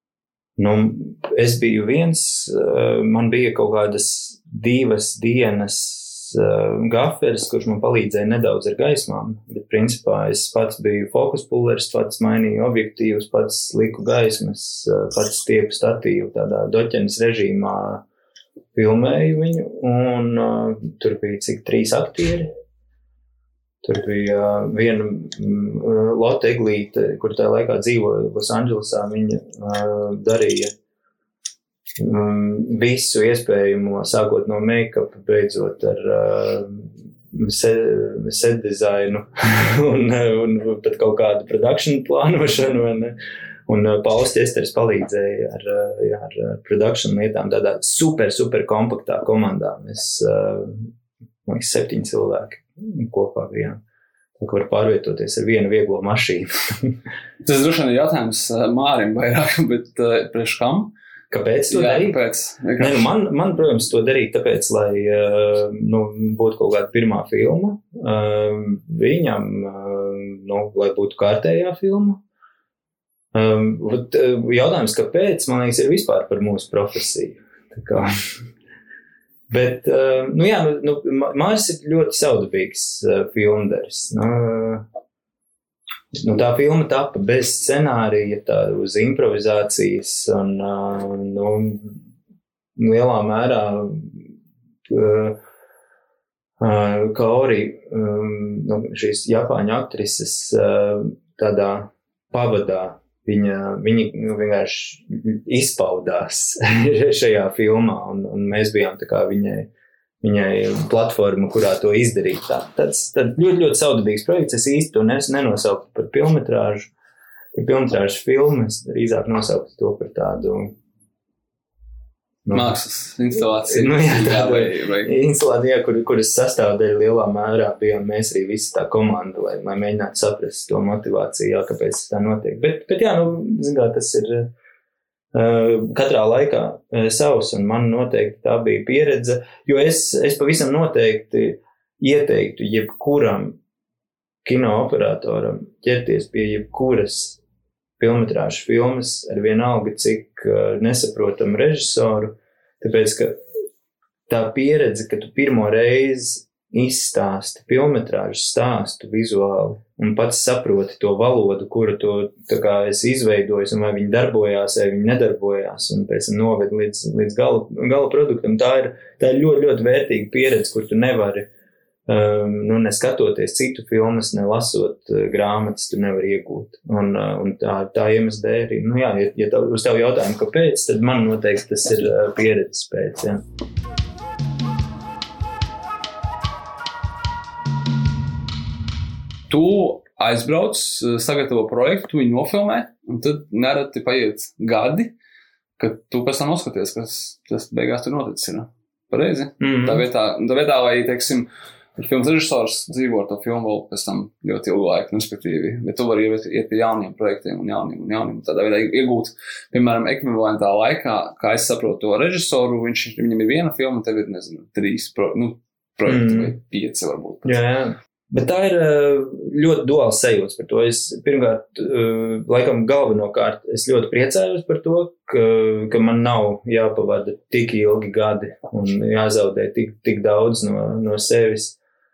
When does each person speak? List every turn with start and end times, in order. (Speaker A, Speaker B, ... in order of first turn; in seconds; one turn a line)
Speaker A: 0.6-18.0
Speaker A: 18.7-22.5
Speaker A: 23.8-30.7
Speaker A: 32.0-43.1
Speaker A: 43.7-50.9
Speaker A: 51.5-53.8
Speaker A: 54.4-57.0
Speaker B: 57.4-60.9
Speaker A: 61.3-62.2
Speaker B: 61.7-63.1
Speaker A: 62.8-72.2
Speaker A: 73.3-78.1
Speaker A: 79.5-84.8
Speaker A: 86.1-92.0
Speaker A: 92.8-94.2
Speaker A: 94.9-95.4
Speaker A: 96.6-109.7
Speaker A: 110.2-116.9
Speaker A: 117.5-120.7
Speaker B: 122.5-125.1
Speaker A: 123.5-134.5
Speaker A: 135.3-143.6
Speaker A: 144.4-147.4
Speaker A: 148.0-153.4
Speaker A: 154.3-171.5
Speaker A: 172.1-183.4
Speaker B: 189.5-195.1
Speaker B: 195.8-217.5
Speaker A: 199.6-200.0
Speaker A: 216.1-216.6
Speaker A: 217.4-231.8